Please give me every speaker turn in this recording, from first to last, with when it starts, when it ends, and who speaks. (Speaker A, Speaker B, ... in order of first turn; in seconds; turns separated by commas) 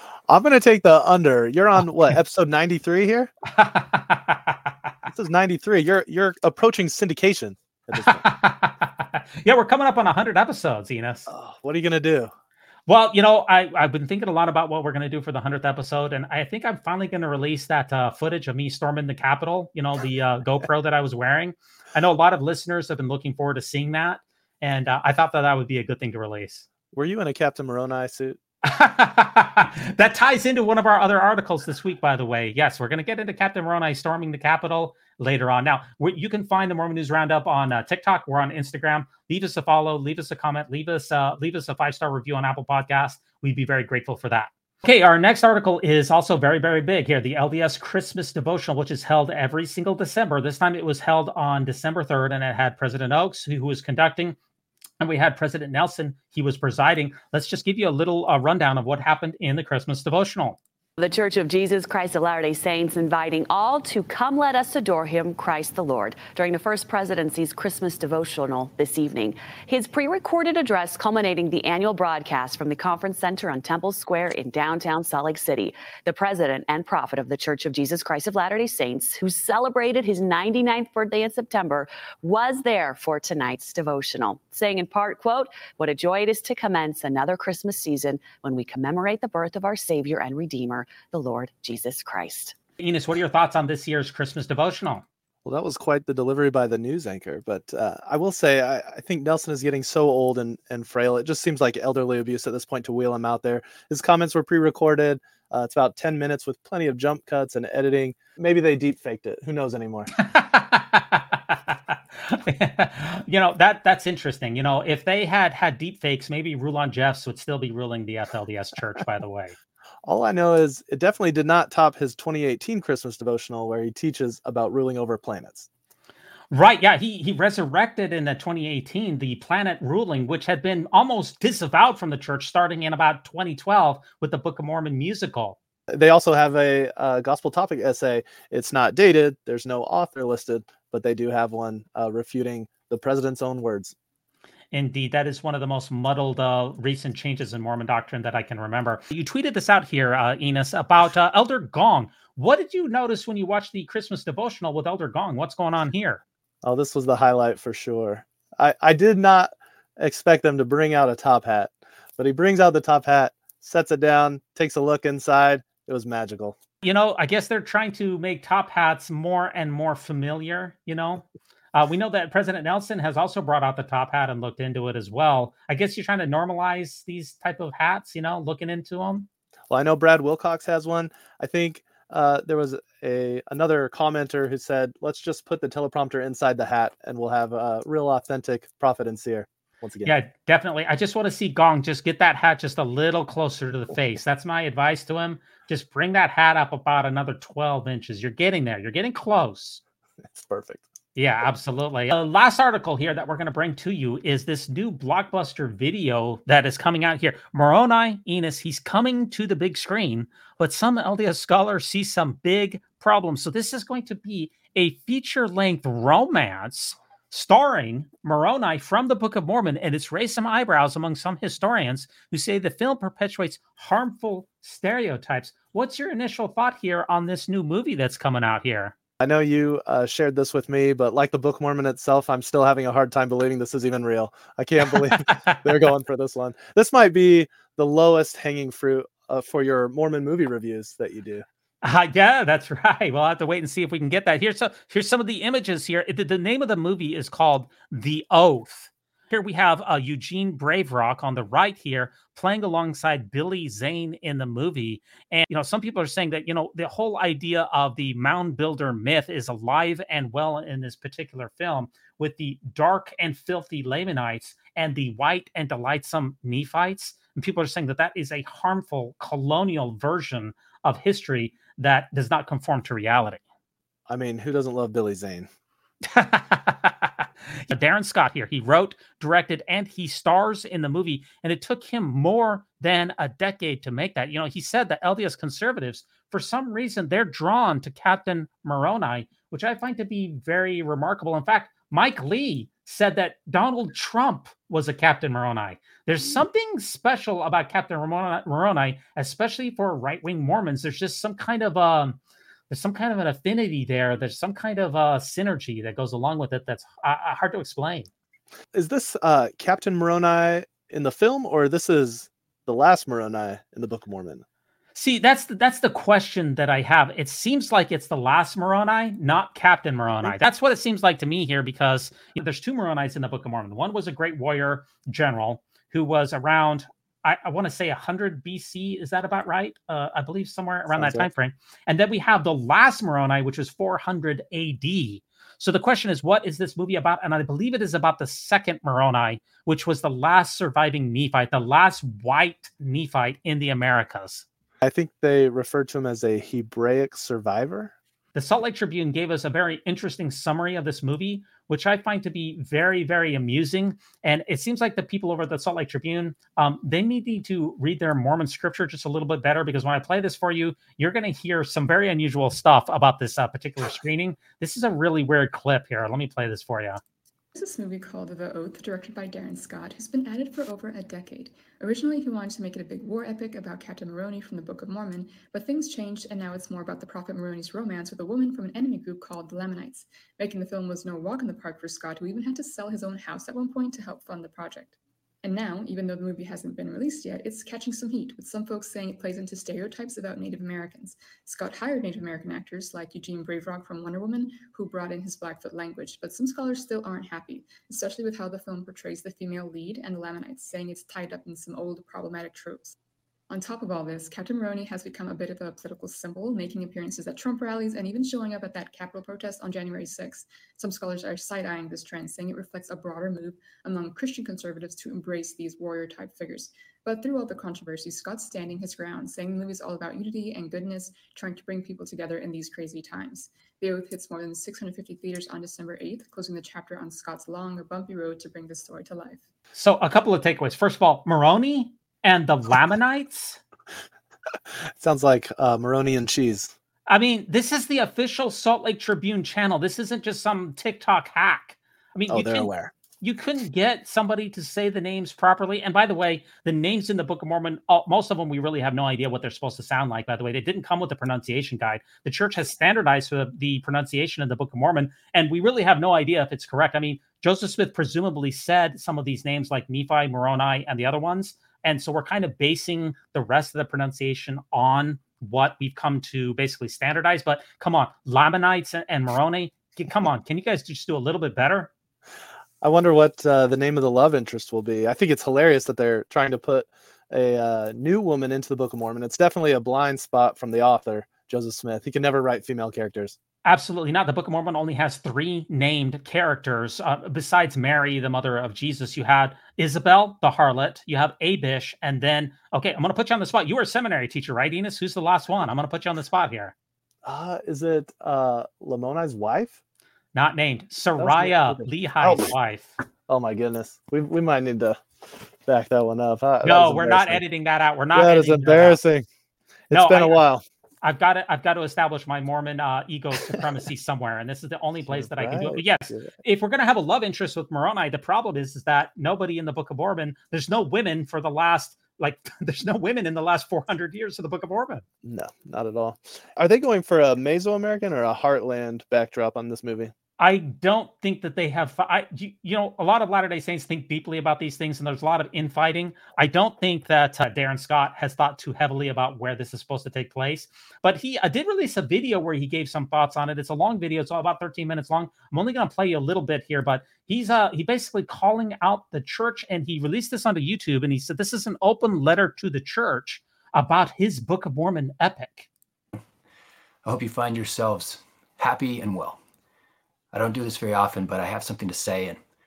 Speaker A: 0.3-3.3, Speaker B: 3.5-4.7, Speaker A: 5.1-8.2, Speaker B: 8.0-11.3, Speaker A: 11.3-12.3, Speaker B: 12.9-26.7, Speaker A: 26.9-28.4, Speaker B: 28.6-54.4, Speaker B: 55.0-60.6, Speaker C: 61.0-92.5, Speaker B: 92.8-95.0, Speaker A: 95.4-110.1, Speaker B: 110.2-119.5, Speaker A: 120.0-125.7, Speaker B: 126.5-135.6, Speaker A: 135.9-143.9, Speaker B: 144.7-156.2, Speaker A: 156.6-166.6, Speaker B: 166.8-179.3, Speaker A: 179.7-190.2, Speaker B: 190.0-199.8, Speaker A: 200.3-200.9, Speaker B: 201.2-228.9, Speaker A: 229.2-241.4, Speaker B: 235.1-235.6, Speaker B: 241.8-273.4, Speaker A: 274.1-275.5, Speaker B: 276.0-302.2, Speaker B: 302.7-308.1, Speaker A: 308.7-314.4, Speaker B: 314.9-344.4, Speaker A: 330.9-331.3, Speaker A: 344.8-347.9, Speaker B: 348.3-367.0, Speaker D: 367.5-402.9, Speaker D: 403.5-429.4, Speaker B: 429.7-433.6, Speaker A: 434.8-436.7, Speaker B: 437.1-442.7, Speaker A: 442.3-442.9, Speaker B: 443.2-471.9, Speaker A: 472.8-483.4, Speaker B: 483.6-496.7, Speaker A: 497.2-499.8, Speaker B: 500.3-502.9, Speaker A: 501.2-502.5, Speaker A: 503.3-505.0, Speaker A: 505.6-507.4, Speaker B: 506.6-509.0, Speaker A: 508.1-509.3, Speaker A: 509.9-510.6, Speaker B: 509.9-510.4, Speaker B: 511.0-525.0, Speaker A: 515.1-516.3, Speaker A: 525.2-530.1, Speaker B: 530.4-555.7, Speaker E: 557.0-559.4, Speaker E: 560.3-562.4